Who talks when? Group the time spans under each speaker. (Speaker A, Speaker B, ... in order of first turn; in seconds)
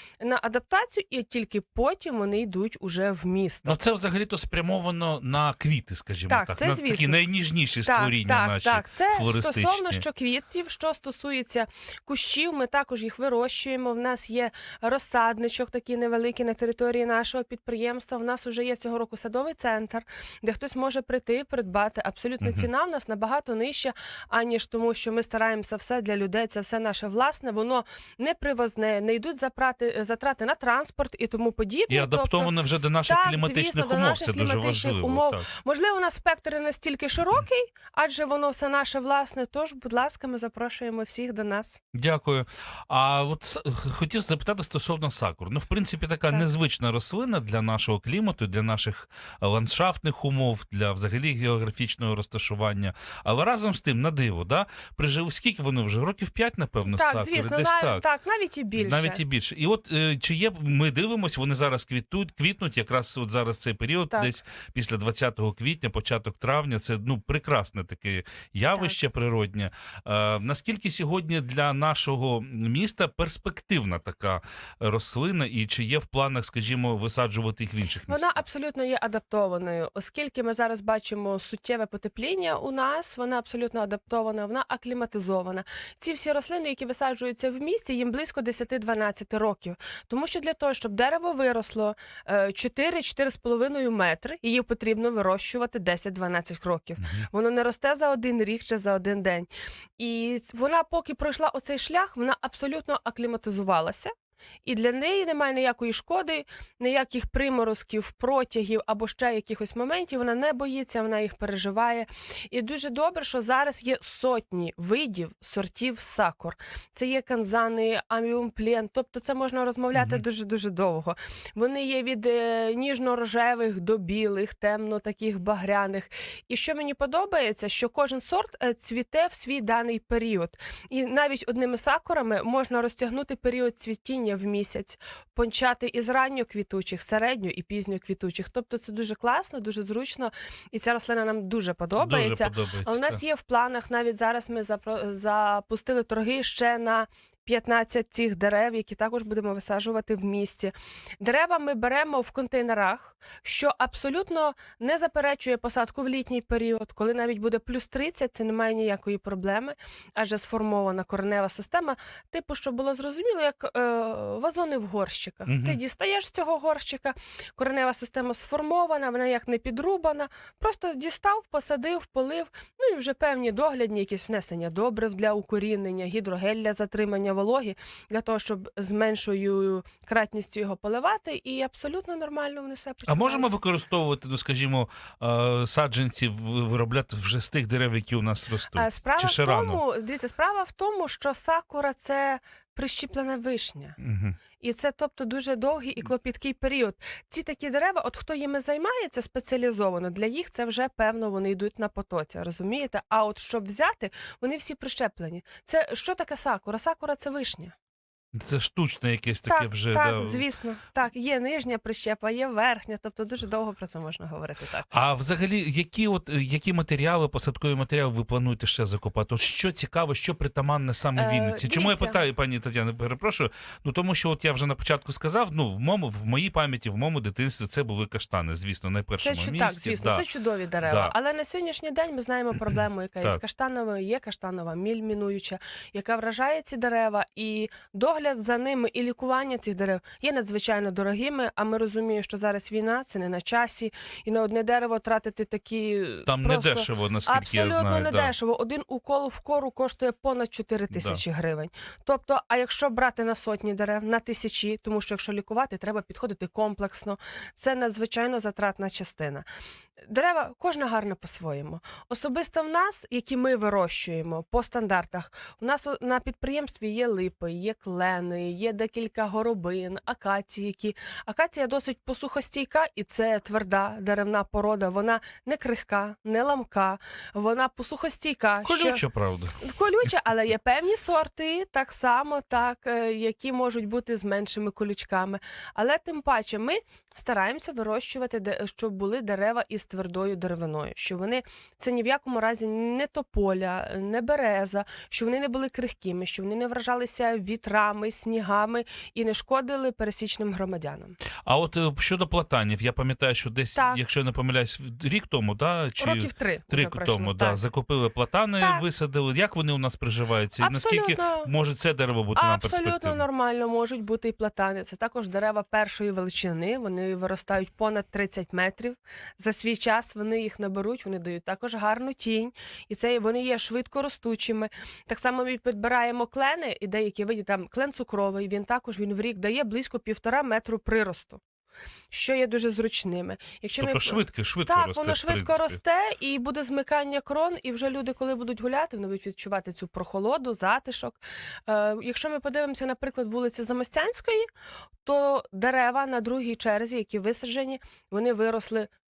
Speaker A: 0.2-3.8, 6.3-7.2, 7.8-41.8, 56.8-59.2, 78.1-104.1, 104.6-183.5, 188.7-194.0, 194.6-207.7, 209.5-214.9, 221.1-222.2, 229.2-259.4, 260.0-279.0, 279.6-301.1, 303.7-304.0, 306.0-307.6, 308.6-308.8, 310.6-311.5, 312.3-331.4, 332.1-344.5, 345.0-348.9
Speaker B: 3.6-10.0, 22.4-22.7, 31.9-35.5, 41.9-58.0, 58.8-78.4, 97.0-97.3, 119.9-120.2, 141.9-143.2, 165.5-165.8, 183.1-189.8, 194.0-194.4, 208.3-210.4, 214.9-230.2, 230.8-231.1, 246.3-248.3, 250.9-251.2, 278.6-279.6, 301.4-313.2, 333.8-335.8